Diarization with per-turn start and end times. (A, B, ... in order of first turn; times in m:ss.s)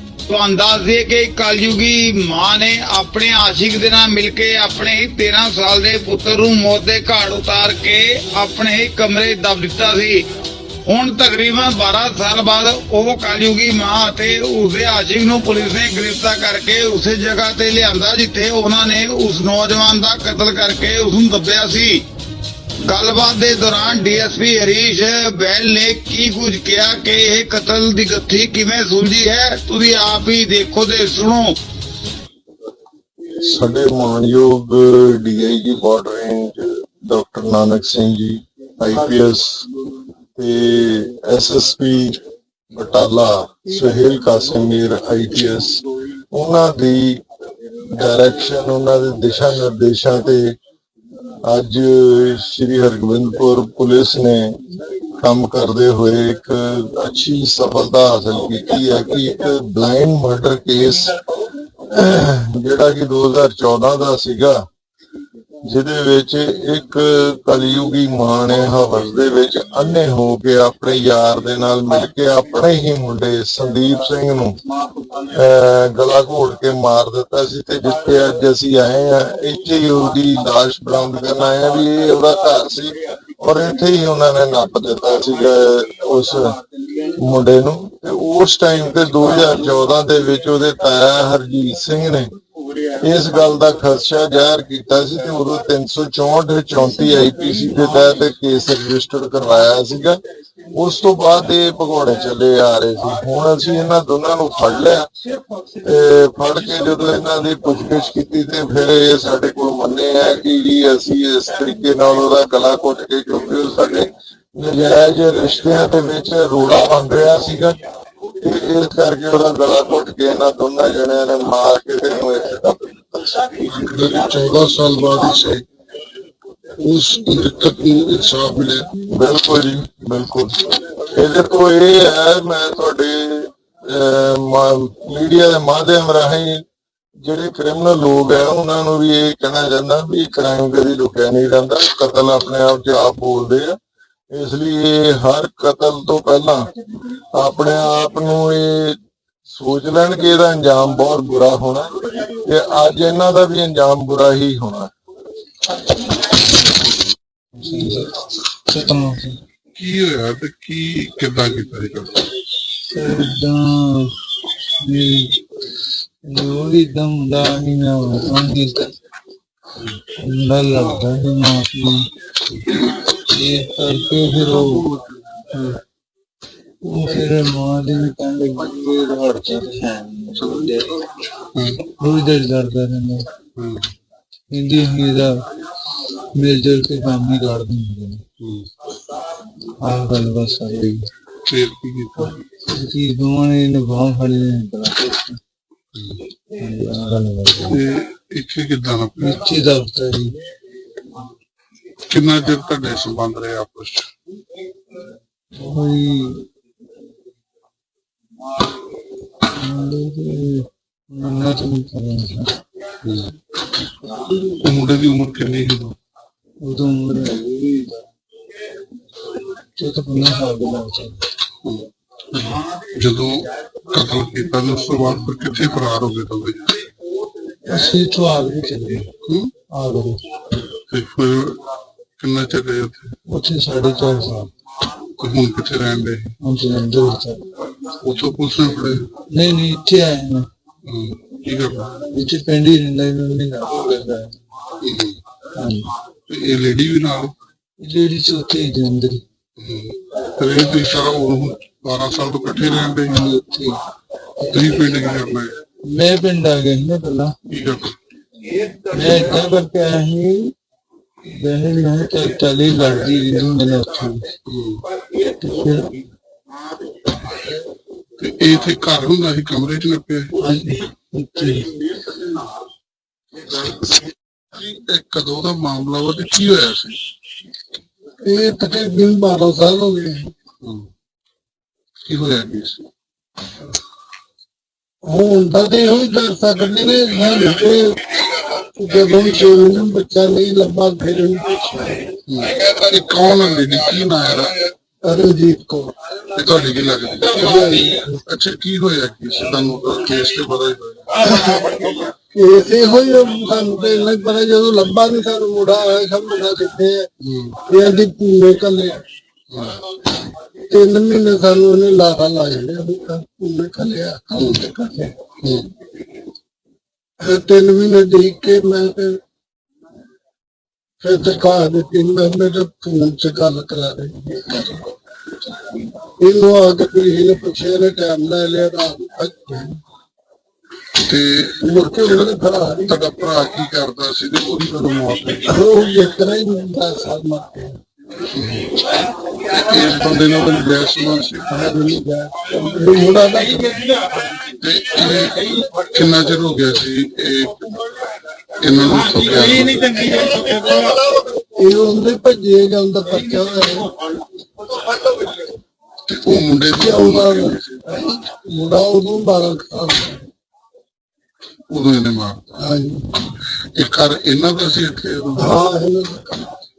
0:00.3-0:10.2 A
0:10.9-0:22.0 A
0:22.9-0:31.6 A
0:33.4-0:39.7 B
0:40.4-0:42.2 B
0:42.7-0:47.2 B
0:47.8-0:50.5 B
0:51.4-0:54.6 B
0:55.2-1:01.2 B
1:01.9-1:04.6 B
1:05.6-1:14.6 B
1:15.2-1:26.6 B
1:27.2-1:32.3 B
1:33.0-1:40.2 B
1:40.7-1:45.1 B
1:45.8-1:57.8 B
1:58.4-2:03.5 B
2:03.6-2:05.6 C
2:06.8-2:08.9 C
2:09.1-2:16.6 B
2:17.2-2:23.8 B
2:24.3-2:26.7 B
2:27.3-2:34.9 B
2:37.6-2:38.1 D
2:38.7-2:39.4 D
2:39.8-2:42.2 C
2:42.8-2:44.1 D
2:44.8-2:45.4 D
2:46.2-2:48.9 D
2:50.1-2:52.1 D
2:53.1-2:54.9 D
2:54.7-2:55.8 C
2:56.8-3:00.8 D
3:01.4-3:01.8 C
3:01.9-3:03.3 D
3:03.6-3:03.8 C
3:04.5-3:05.4 D
3:06.3-3:08.2 D
3:08.4-3:08.7 C
3:09.7-3:11.1 D
3:11.5-3:12.4 C
3:12.6-3:15.4 D
3:15.9-3:16.2 C
3:16.6-3:17.8 D
3:17.7-3:19.4 C
3:19.2-3:20.4 D
3:22.1-3:24.1 C
3:25.6-3:26.4 D
3:29.4-3:32.5 D
3:33.0-3:33.3 C
3:34.4-3:36.0 C
3:36.6-3:37.9 D
3:39.8-3:41.2 D
3:41.6-3:46.8 C
3:47.6-3:49.1 D
3:49.2-3:49.5 C
3:49.7-3:50.2 D
3:50.9-3:51.6 C
3:52.2-3:53.1 C
3:53.3-3:54.5 D
3:55.2-3:56.3 C
3:56.4-3:57.4 D
3:58.0-3:59.0 C
3:59.2-4:00.5 D
4:00.9-4:02.0 C
4:02.1-4:04.3 D
4:04.8-4:05.2 C
4:05.6-4:05.9 D
4:06.3-4:07.3 C
4:07.8-4:09.2 D
4:09.6-4:13.1 C
4:13.0-4:13.8 D
4:14.5-4:15.6 C
4:15.9-4:17.4 D
4:17.5-4:18.0 C
4:18.9-4:20.5 D
4:21.3-4:24.3 D
4:24.5-4:24.8 C
4:25.3-4:25.9 D
4:28.2-4:30.3 C
4:30.4-4:31.8 D
4:34.5-4:37.0 C
4:38.2-4:40.3 E
4:40.6-4:40.9 C
4:42.1-4:42.9 C
4:45.0-4:52.1 E
4:52.3-4:54.6 C
4:55.0-4:55.9 E
4:56.3-5:01.2 C
4:57.4-4:58.1 E
5:01.3-5:01.8 E
5:02.3-5:07.0 E
5:07.2-5:07.6 C
5:07.6-5:09.0 E
5:09.5-5:09.8 C
5:10.7-5:15.1 E
5:14.3-5:14.6 C
5:15.4-5:15.7 C
5:17.2-5:19.2 E
5:21.0-5:24.8 E
5:26.2-5:29.8 E
5:31.0-5:35.5 C
5:31.6-5:33.0 E
5:35.5-5:37.8 E
5:38.3-5:41.5 C
5:41.5-5:43.9 E
5:44.6-5:47.8 C
5:48.6-5:50.3 C
5:50.4-5:50.9 E
5:51.6-5:53.9 E
5:56.1-5:57.7 C
5:56.7-6:00.2 E
6:01.7-6:02.4 C
6:02.6-6:03.2 E
6:03.8-6:05.5 C
6:05.4-6:06.5 E